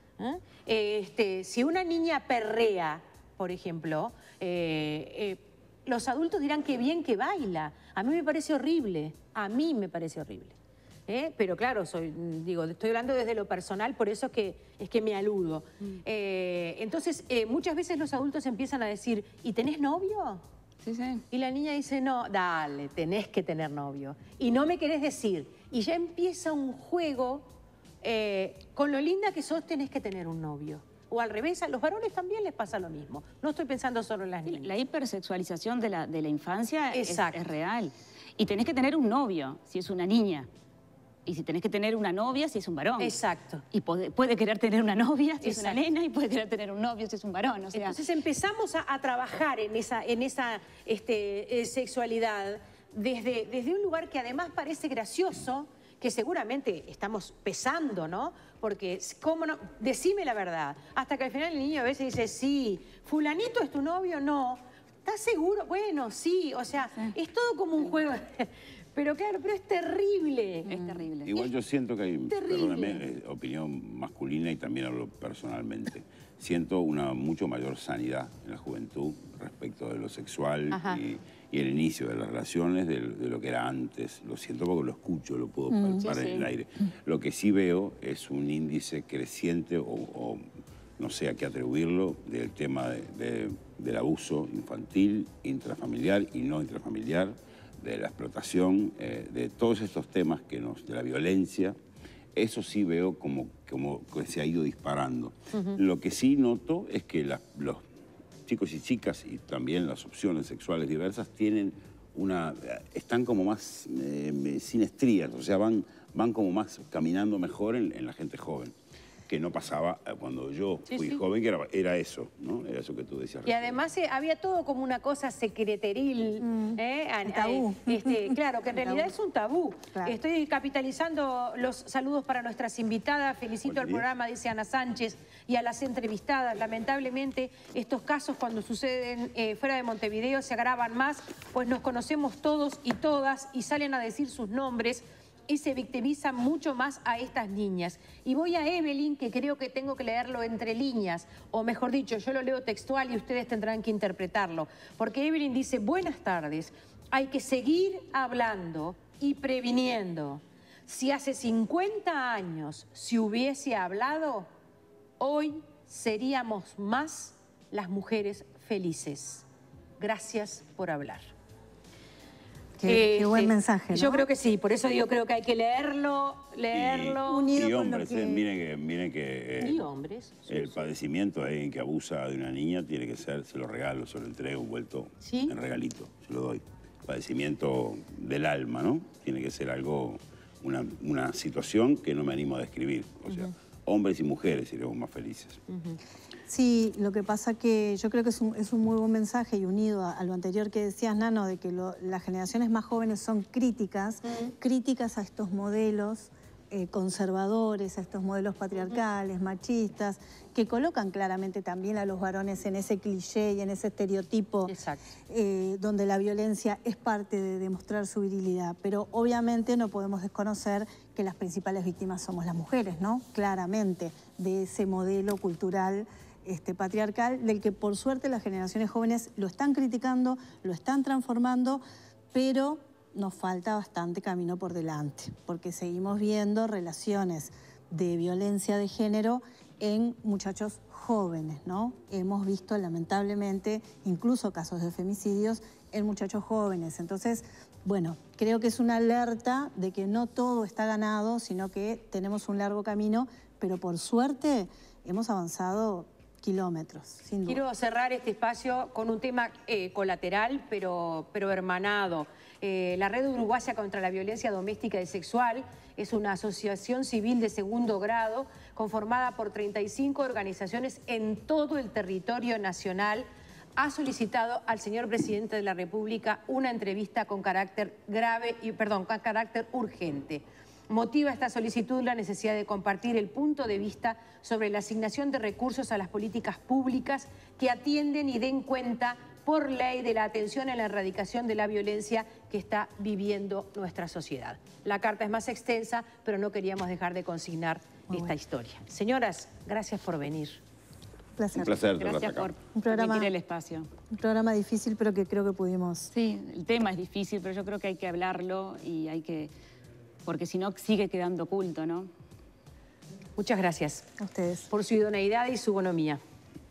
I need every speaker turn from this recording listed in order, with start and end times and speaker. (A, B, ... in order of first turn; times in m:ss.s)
0:00.2-0:10.6 A
0:11.1-0:20.4 A
0:20.8-0:21.2 B
0:21.3-0:27.5 A
0:28.0-0:34.7 A
0:34.5-0:40.5 B
0:36.9-0:37.4 A
0:41.3-0:43.2 B
0:43.0-0:43.6 A
0:43.7-0:48.0 B
0:45.4-0:45.8 A
0:47.7-1:11.5 A
1:10.6-1:11.3 B
1:11.2-1:30.4 C
1:12.3-1:13.0 A
1:20.7-1:21.0 A
1:25.7-1:26.1 D
1:26.0-1:26.5 B
1:31.0-1:41.8 C
1:42.4-1:47.8 C
1:48.5-1:58.7 C
1:59.3-2:03.8 C
2:00.9-2:01.2 A
2:03.4-2:44.5 A
2:06.4-2:09.1 D
2:13.6-2:14.1 C
2:45.2-2:49.4 A
2:50.0-2:51.3 A
2:52.8-2:54.3 D
2:52.8-2:57.5 A
2:56.7-2:59.8 C
2:57.2-2:58.4 D
2:59.6-3:00.9 A
3:00.5-3:15.6 C
3:05.2-3:05.6 A
3:15.7-3:16.0 A
3:16.5-3:34.8 D
3:34.7-3:35.0 A
3:35.3-3:51.8 D
3:52.3-4:17.6 D
4:17.4-4:33.3 A
4:33.8-5:00.6 A
4:58.1-4:58.4 D
5:01.4-5:01.7 D
5:01.6-5:02.5 C
5:02.0-5:03.9 B
5:02.8-5:03.3 D
5:04.1-5:06.1 D
5:06.1-5:09.5 B
5:10.2-5:12.1 B
5:13.4-5:14.1 A
5:14.2-5:14.7 D
5:14.7-5:16.2 A